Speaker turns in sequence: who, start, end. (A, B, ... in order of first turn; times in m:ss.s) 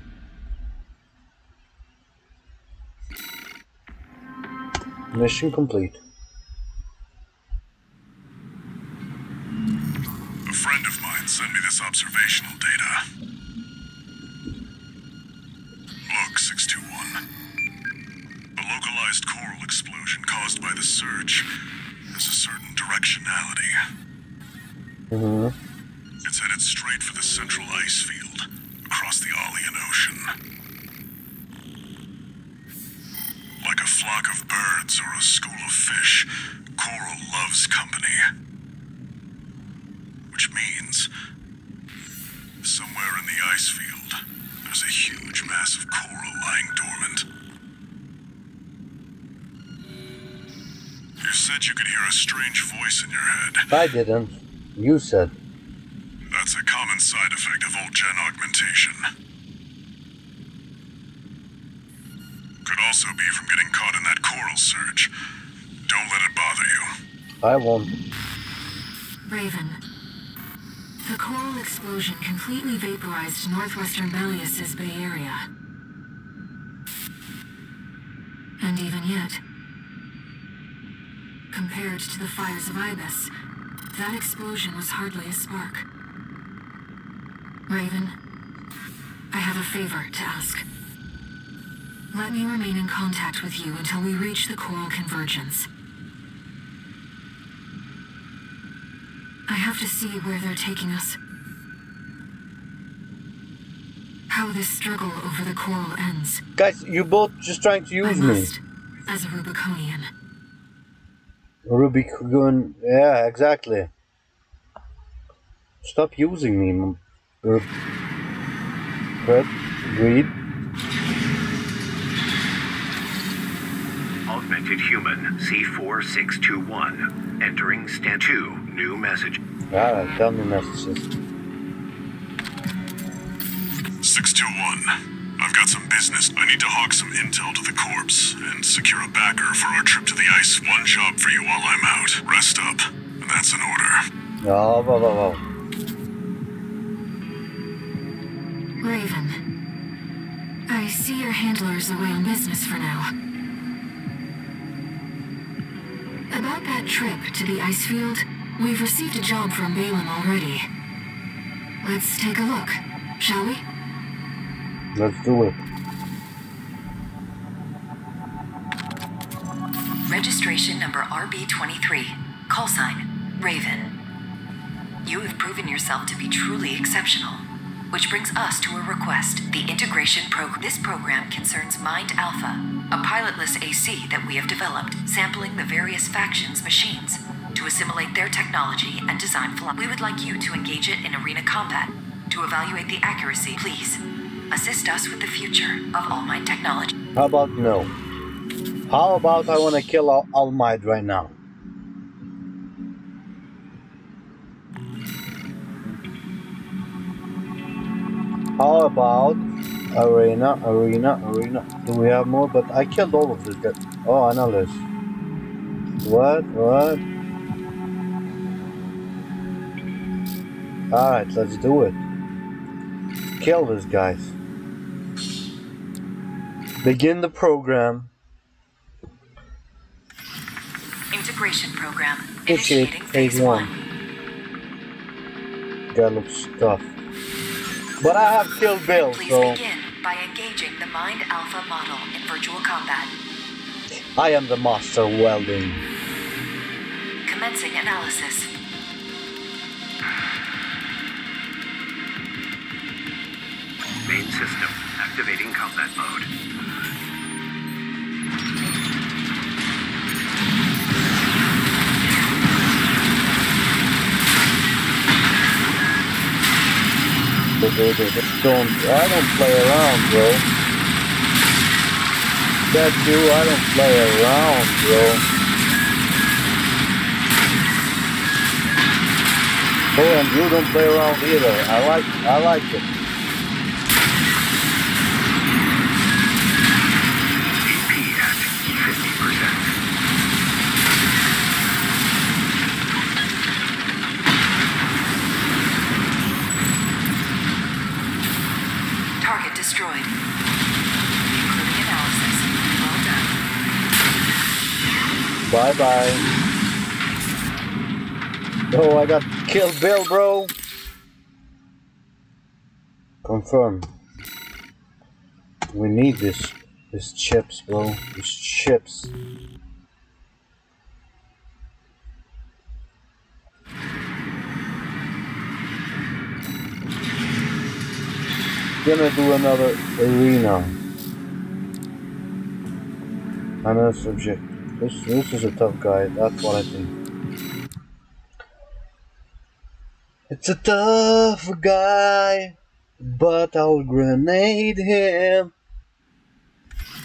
0:05.1-0:06.0 A
0:10.5-0:13.0 B
0:16.1-0:17.2 B
0:18.6-0:21.5 B
0:22.1-0:23.7 B
0:25.1-0:25.5 A
0:26.2-0:30.3 B
0:33.6-0:38.2 B
0:40.3-0:41.1 B
0:42.6-0:47.2 B
0:51.2-0:53.7 B
0:53.7-0:55.3 A
0:56.3-0:59.0 B
1:02.6-1:05.1 B
1:05.9-1:06.9 B
1:07.4-1:08.0 A
1:09.2-1:09.8 C
1:11.0-1:15.5 C
1:18.6-1:19.4 C
1:21.5-1:23.3 C
1:23.9-1:25.8 C
1:27.7-1:28.2 C
1:29.3-1:30.6 C
1:32.1-1:35.7 C
1:39.5-1:41.2 C
1:44.3-1:46.4 C
1:46.6-1:48.5 A
1:48.0-1:50.1 C
1:51.6-1:53.9 A
1:55.8-1:57.7 A
1:59.2-2:00.3 A
2:04.2-2:09.4 D
2:09.7-2:11.1 A
2:14.0-2:24.0 B
2:24.4-2:25.4 A
2:28.8-2:29.4 C
2:30.7-2:33.1 C
2:36.3-2:40.7 C
2:41.8-2:43.6 C
2:44.9-2:45.6 A
2:50.1-2:53.9 E
2:55.0-3:16.9 E
3:17.2-3:17.9 A
3:18.9-3:21.4 A
3:28.6-3:34.8 A
3:36.0-3:37.0 A
3:40.9-3:42.0 A
3:43.4-3:44.3 A
3:46.8-3:48.1 A
3:51.1-3:53.8 E
3:52.5-3:53.7 A
3:55.9-3:56.9 A
3:58.0-3:59.6 A
3:58.9-4:03.1 E
4:04.1-4:05.8 A
4:07.2-4:08.5 E
4:14.0-4:16.3 D
4:27.6-4:30.4 A
4:32.7-4:35.2 A
4:40.0-4:42.9 A
4:47.6-4:49.8 D
4:59.2-5:00.1 E
5:01.3-5:03.4 E
5:05.5-5:06.2 A
5:08.7-5:10.5 A
5:13.2-5:13.9 A
5:15.7-5:19.1 A
5:28.8-5:30.8 A
5:33.6-5:36.9 A
5:40.3-5:45.5 A